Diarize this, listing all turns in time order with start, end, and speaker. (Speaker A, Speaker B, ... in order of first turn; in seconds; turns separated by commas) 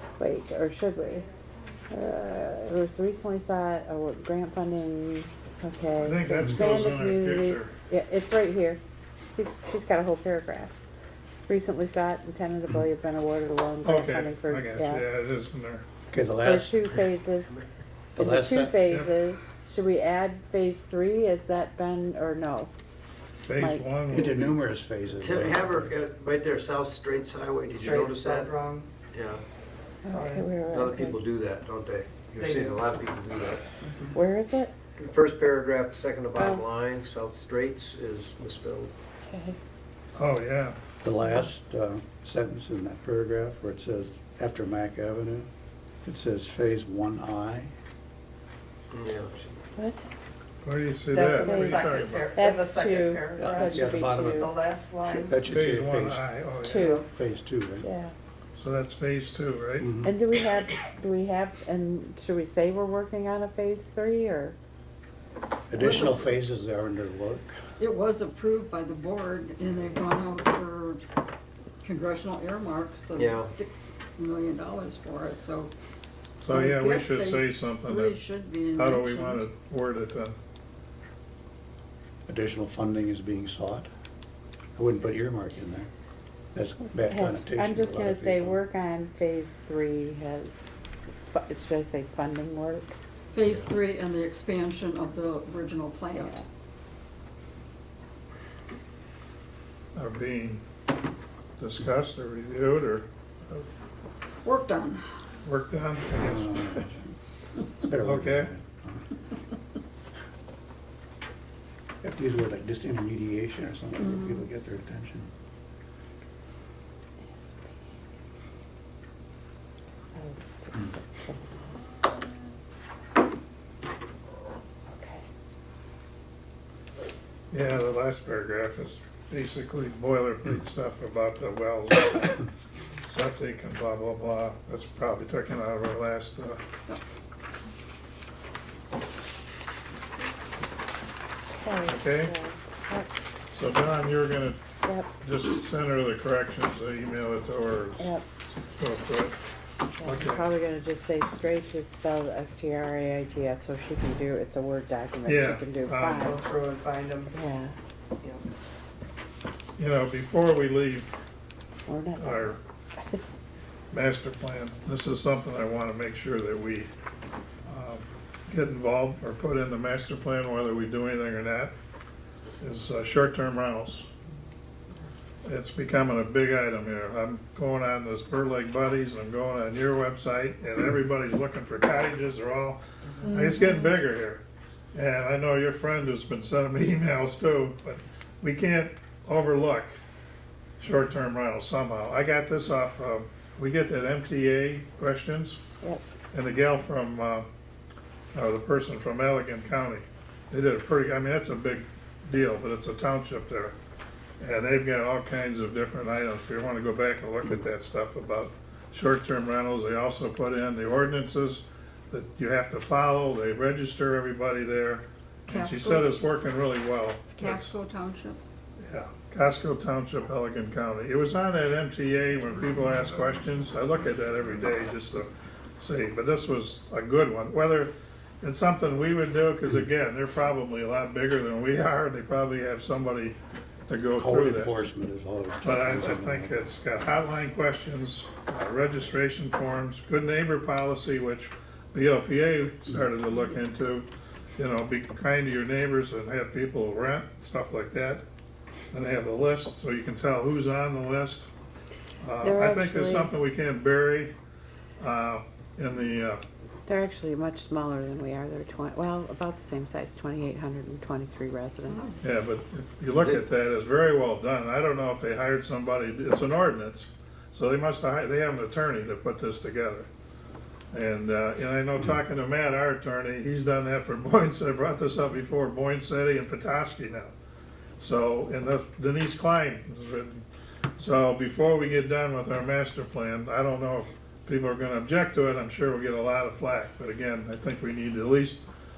Speaker A: 0.2-1.3, Speaker A: 1.9-8.8, Speaker B: 6.0-7.7, Speaker A: 9.3-10.8, Speaker A: 11.5-15.1, Speaker B: 13.8-15.8, Speaker C: 16.1-17.0, Speaker A: 16.4-17.6, Speaker C: 18.2-18.8, Speaker A: 18.2-22.7, Speaker B: 23.4-24.6, Speaker A: 23.6-23.9, Speaker C: 24.1-25.9, Speaker D: 25.2-28.5, Speaker E: 27.7-28.9, Speaker D: 29.1-29.4, Speaker A: 30.0-31.2, Speaker E: 30.1-30.4, Speaker D: 30.7-33.7, Speaker E: 32.4-32.8, Speaker E: 33.8-34.1, Speaker A: 34.1-34.7, Speaker D: 35.0-38.9, Speaker A: 36.4-36.6, Speaker A: 39.3-39.6, Speaker B: 40.1-40.8, Speaker C: 41.0-45.5, Speaker C: 46.0-47.7, Speaker D: 48.9-49.6, Speaker A: 49.8-50.0, Speaker B: 50.6-52.3, Speaker E: 51.1-55.4, Speaker A: 51.2-54.5, Speaker C: 53.4-54.5, Speaker C: 55.1-56.2, Speaker B: 55.4-57.0, Speaker A: 56.6-57.1, Speaker C: 56.8-57.9, Speaker A: 57.8-58.1, Speaker B: 58.5-59.9, Speaker C: 59.8-60.1, Speaker A: 60.0-64.6, Speaker C: 65.7-67.6, Speaker F: 65.8-66.3, Speaker F: 67.8-71.0, Speaker F: 71.8-75.7, Speaker D: 73.2-73.5, Speaker B: 76.4-78.2, Speaker F: 76.5-79.4, Speaker B: 78.7-80.4, Speaker C: 82.3-83.9, Speaker C: 84.8-85.9, Speaker C: 86.5-88.6, Speaker A: 87.0-90.6, Speaker A: 91.3-92.9, Speaker F: 93.3-96.4, Speaker A: 96.1-96.5, Speaker B: 100.0-100.6, Speaker B: 101.6-103.7, Speaker F: 104.4-105.0, Speaker B: 105.4-106.9, Speaker C: 106.2-107.0, Speaker C: 107.8-109.1, Speaker B: 107.9-108.5, Speaker C: 112.0-115.3, Speaker F: 114.0-114.4, Speaker A: 117.5-117.7, Speaker A: 120.2-121.7, Speaker A: 124.9-125.2, Speaker B: 127.5-132.5, Speaker B: 133.1-136.6, Speaker A: 141.6-143.1, Speaker B: 141.9-142.3, Speaker B: 143.5-144.6, Speaker A: 144.8-145.1, Speaker B: 145.2-148.1, Speaker A: 148.0-148.2, Speaker B: 148.8-149.4, Speaker A: 150.0-156.4, Speaker B: 150.0-150.5, Speaker B: 155.3-156.2, Speaker E: 156.2-157.3, Speaker A: 157.3-157.7, Speaker B: 159.8-161.1, Speaker A: 161.9-163.2, Speaker B: 162.2-162.6, Speaker B: 163.9-166.9, Speaker B: 167.7-171.7, Speaker B: 172.6-174.1, Speaker B: 175.4-184.4, Speaker A: 183.2-183.9, Speaker B: 184.9-189.9, Speaker B: 190.8-195.6, Speaker B: 196.3-197.5, Speaker B: 198.3-203.8, Speaker B: 204.4-217.7, Speaker F: 215.5-216.2, Speaker F: 217.3-218.4, Speaker B: 218.8-233.4, Speaker B: 233.9-234.7, Speaker C: 234.2-236.7, Speaker B: 235.6-248.2, Speaker B: 248.9-251.5, Speaker B: 252.2-254.3, Speaker A: 252.4-253.3, Speaker B: 255.0-256.4, Speaker A: 256.9-262.1, Speaker F: 261.9-262.2, Speaker B: 262.2-270.1, Speaker B: 270.9-277.3, Speaker B: 278.0-280.4, Speaker B: 281.0-288.6